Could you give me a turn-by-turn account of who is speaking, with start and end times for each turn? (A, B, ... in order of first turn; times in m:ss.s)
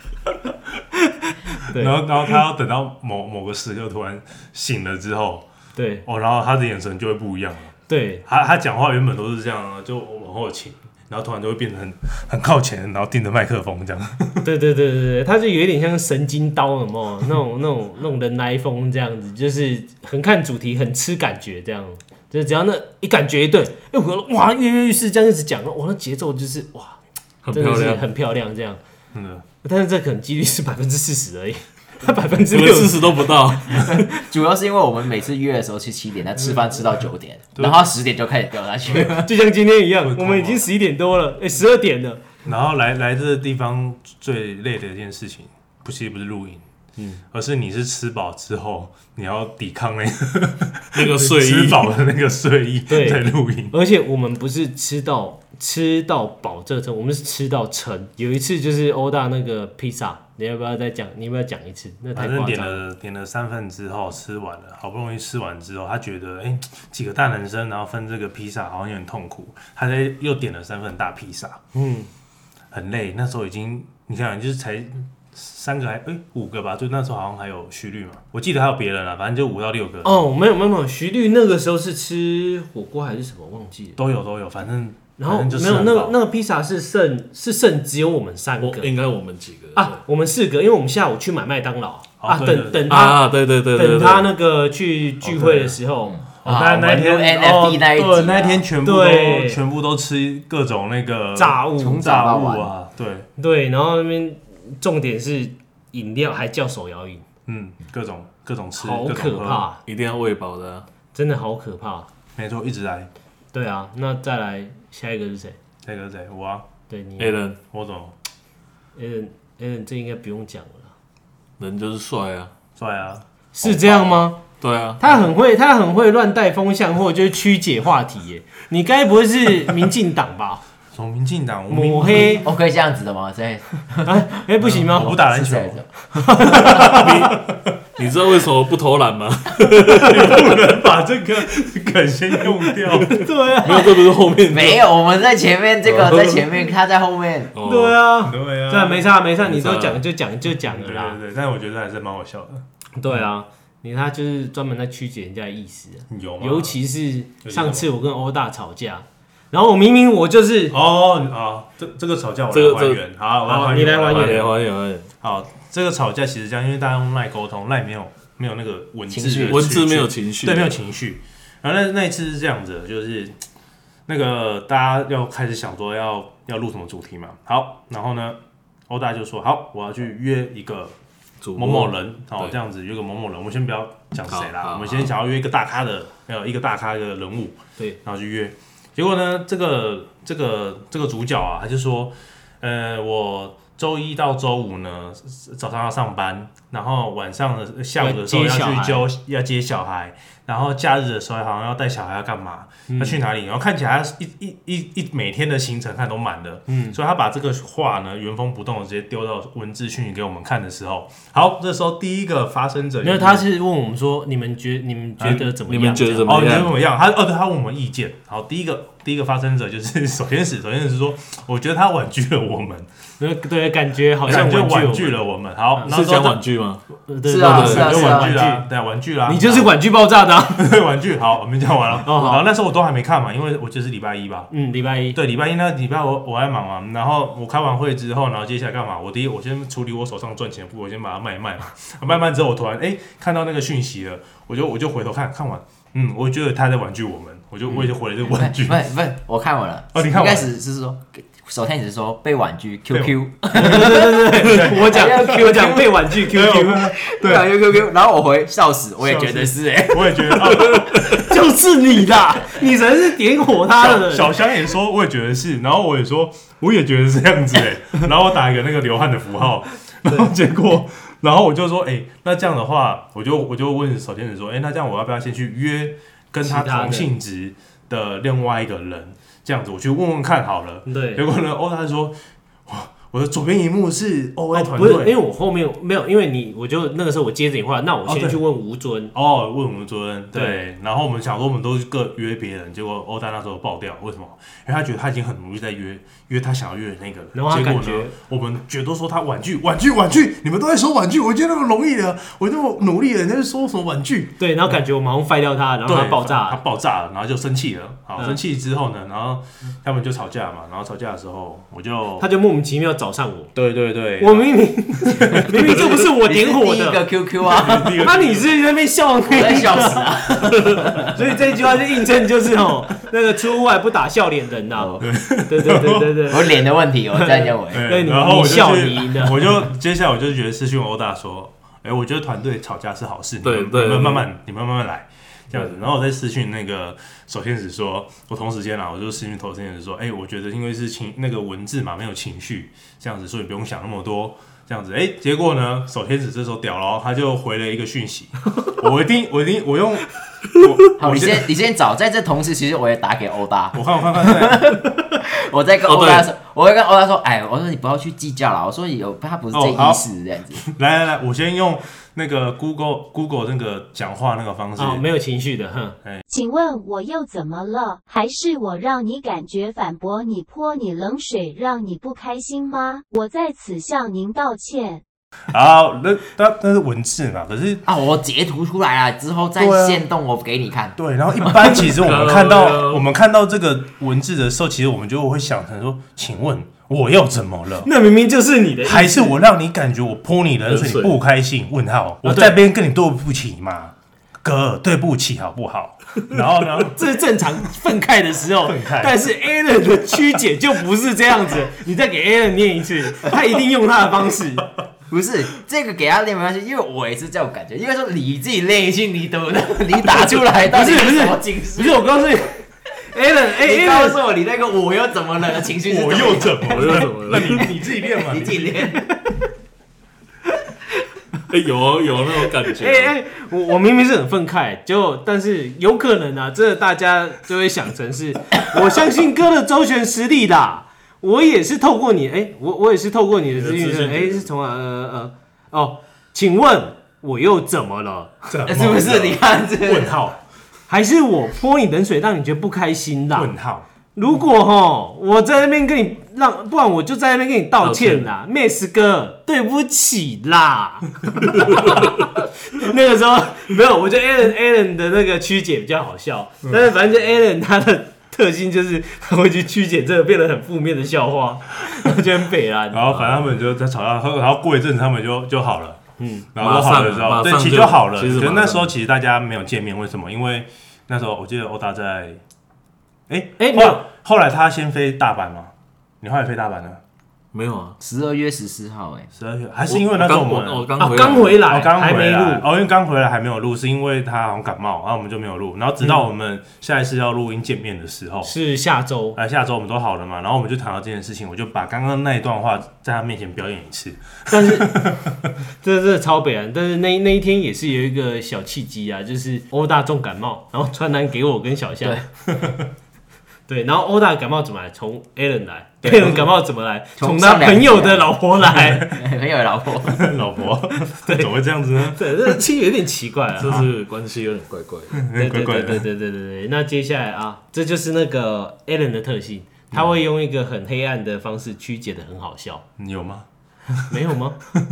0:01.0-0:02.0 A
0:01.7-0:05.4 B
0:05.8-0:06.0 A
0:06.0-0:07.7 B
0:07.9-0:08.2 A
0:08.2-0:14.4 B
0:14.4-0:27.0 A
0:27.4-0:28.0 C
0:27.5-0:28.8 A
0:29.1-0:29.4 B
0:29.6-0:34.0 A
0:32.5-0:34.0 C
0:33.7-0:39.3 D
0:37.6-0:37.8 B
0:38.9-0:42.2 A
0:40.0-0:40.7 B
0:42.4-0:46.6 B
0:47.0-0:47.2 A
0:47.3-0:53.7 B
0:50.9-0:51.9 C
0:52.9-1:02.8 A
1:02.1-1:11.6 B
1:11.7-1:12.1 A
1:12.7-1:20.2 B
1:20.0-1:24.0 A
1:24.0-1:26.1 B
1:25.2-1:28.9 A
1:28.6-1:30.0 C
1:29.8-1:37.8 A
1:32.2-1:32.9 B
1:32.9-1:34.3 C
1:35.2-1:35.7 B
1:36.1-1:38.6 D
1:36.4-1:43.3 B
1:38.8-1:39.6 A
1:41.4-1:42.2 A
1:41.8-1:42.7 D
1:43.4-1:47.2 A
1:47.5-1:49.7 B
1:48.8-1:49.8 A
1:49.8-1:50.8 C
1:51.1-1:52.1 A
1:52.4-1:53.1 B
1:53.5-1:55.6 A
1:55.8-1:56.6 B
1:56.9-1:57.4 A
1:57.2-1:57.6 C
1:57.7-1:58.1 B
1:59.0-2:00.9 A
2:01.6-2:02.5 C
2:02.8-2:04.2 B
2:03.5-2:04.4 A
2:04.6-2:05.0 C
2:05.0-2:10.6 A
2:10.9-2:12.5 B
2:11.7-2:12.5 A
2:12.1-2:14.2 D
2:14.0-2:15.2 A
2:14.6-2:15.8 B
2:15.1-2:16.7 D
2:16.1-2:17.1 A
2:16.4-2:17.7 B
2:16.8-2:17.3 C
2:18.0-2:20.7 C
2:19.8-2:23.2 B
2:23.1-2:24.0 A
2:23.6-2:24.8 C
2:24.5-2:27.5 D
2:25.9-2:26.4 C
2:27.5-2:28.0 C
2:27.6-2:31.2 A
2:28.2-2:29.1 B
2:29.4-2:30.0 C
2:30.5-2:32.6 B
2:33.0-2:40.8 A
2:36.1-2:36.7 B
2:37.4-2:37.9 B
2:40.7-2:44.5 B
2:42.5-2:43.0 C
2:43.4-2:44.5 A
2:44.0-2:45.1 C
2:45.2-2:53.3 B
2:49.1-2:49.8 D
2:49.4-2:50.8 C
2:54.1-3:00.9 B
3:01.4-3:02.6 C
3:01.6-3:33.4 B
3:04.3-3:05.1 C
3:18.0-3:19.0 A
3:22.9-3:23.2 A
3:26.7-3:27.0 A
3:33.0-3:36.6 A
3:35.3-3:36.8 C
3:36.2-3:42.9 B
3:43.2-3:45.2 A
3:44.2-3:46.4 B
3:45.8-3:46.8 C
3:47.0-3:48.6 A
3:47.2-3:48.4 D
3:47.4-3:47.9 C
3:47.5-3:49.7 B
3:49.2-3:50.7 A
3:50.6-3:54.5 B
3:52.0-3:52.4 A
3:54.5-3:55.2 A
3:55.1-4:08.8 B
4:07.7-4:16.2 D
4:09.9-4:10.5 B
4:12.9-4:13.8 B
4:13.5-4:16.9 A
4:14.4-4:14.8 B
4:16.2-4:17.5 B
4:16.9-4:20.8 D
4:19.0-4:21.2 B
4:21.1-4:24.3 A
4:23.8-4:45.1 B
4:36.4-4:37.1 A
4:40.8-4:41.2 A
4:44.5-4:49.1 A
4:48.0-4:48.4 B
4:49.1-5:04.4 B
4:50.3-4:50.6 A
4:57.3-4:58.1 A
5:04.4-5:06.6 A
5:05.8-5:12.3 B
5:12.2-5:13.5 A
5:13.5-5:14.5 B
5:14.2-5:17.0 A
5:15.1-5:15.9 B
5:15.6-5:18.0 D
5:17.4-5:18.5 B
5:18.0-5:20.2 A
5:19.2-5:21.1 D
5:21.0-5:26.6 A
5:24.7-5:25.1 D
5:25.0-5:26.2 B
5:26.3-5:27.9 D
5:27.1-5:29.6 A
5:27.7-5:51.5 B
5:33.4-5:34.3 C
5:35.5-5:35.8 C
5:51.0-6:00.6 D
5:53.7-5:54.8 B
5:55.8-5:56.3 C
5:59.5-6:00.0 B
6:00.6-6:05.0 B
6:04.8-6:06.0 A
6:06.3-6:15.0 E
6:15.5-6:17.8 B
6:17.8-6:21.8 D
6:19.6-6:20.0 B
6:21.0-6:27.9 B
6:21.7-6:23.0 C
6:27.8-6:29.4 A
6:28.8-6:37.0 B
6:30.6-6:31.2 C
6:32.2-6:32.6 A
6:36.8-6:44.7 A
6:38.6-6:39.1 B
6:45.1-6:52.1 D
6:50.6-6:54.2 A
6:53.6-6:59.0 D
6:55.8-6:58.9 B
6:56.7-6:57.7 C
7:01.5-7:03.1 C
7:02.7-7:18.3 A
7:13.5-7:14.5 C
7:18.5-7:20.4 B
7:18.6-7:20.1 D
7:20.9-7:23.5 A
7:23.3-7:23.8 B
7:24.1-7:43.3 A
7:27.8-7:28.3 C
7:42.9-7:46.0 B
7:46.2-7:46.5 A
7:46.5-7:52.4 B
7:46.6-7:48.9 C
7:53.3-7:57.0 B
7:53.6-7:54.0 A
7:57.5-7:58.0 C
7:58.0-7:59.3 D
7:59.3-8:08.5 B
7:59.9-8:01.6 C
8:01.0-8:02.6 A
8:08.4-8:09.4 A
8:09.4-8:15.2 B
8:14.5-8:15.0 A
8:15.8-8:22.2 A
8:22.5-8:22.9 B
8:23.7-8:29.2 A
8:26.0-8:26.4 B
8:27.2-8:28.4 D
8:28.8-8:29.1 B
8:29.0-8:30.3 D
8:30.0-8:32.6 B
8:31.2-8:31.5 A
8:32.0-8:33.8 A
8:33.6-8:35.2 C
8:35.2-8:36.0 B
8:35.4-8:42.8 A
8:43.0-8:43.4 B
8:44.0-8:44.6 A